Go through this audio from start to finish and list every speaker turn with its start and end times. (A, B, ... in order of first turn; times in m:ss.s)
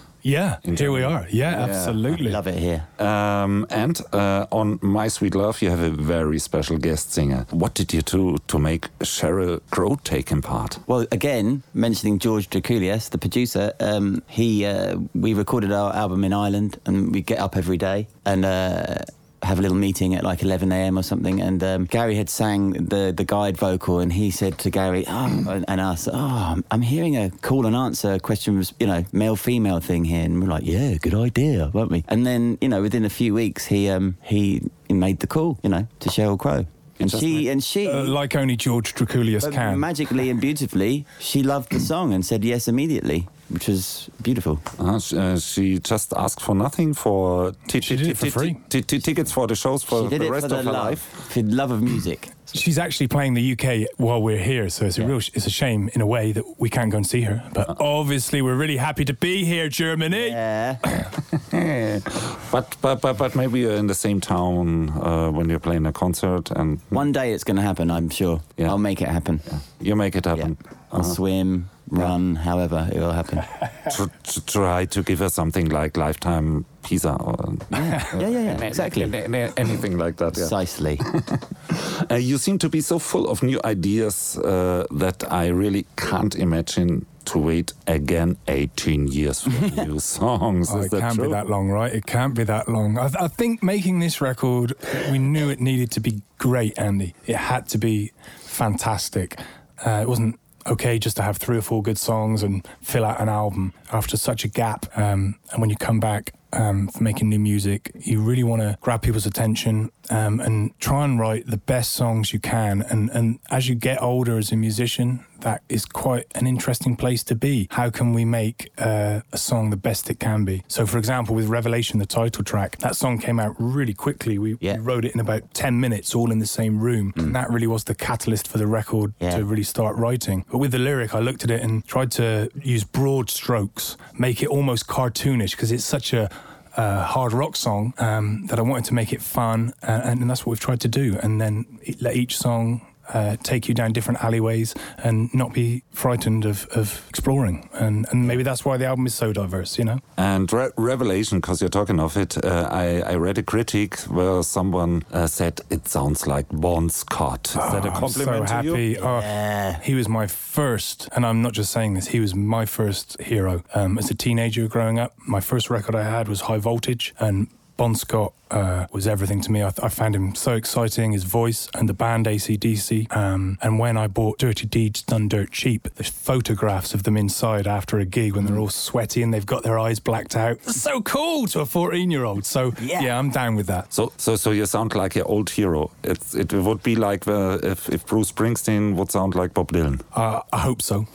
0:00.2-0:02.4 A
0:00.6-0:02.0 B
0:01.5-0:02.9 C
0:03.0-0:10.8 B
0:10.9-0:38.1 C
0:37.0-0:37.5 B
0:37.8-0:39.9 A
0:39.4-0:44.6 C
0:44.8-0:51.2 B
0:47.8-0:48.6 A
0:49.9-0:52.5 C
0:52.5-1:00.4 A
1:00.1-1:00.8 C
1:01.2-1:07.1 B
1:06.9-1:09.4 C
1:09.5-1:11.2 B
1:10.3-1:13.6 C
1:13.8-1:31.4 B
1:17.7-1:19.1 C
1:20.3-1:21.0 C
1:30.6-2:30.0 A
2:30.2-2:38.9 B
2:37.6-3:03.9 A
2:39.0-2:39.8 C
3:02.8-3:03.1 C
3:03.9-3:10.0 B
3:10.1-3:11.0 A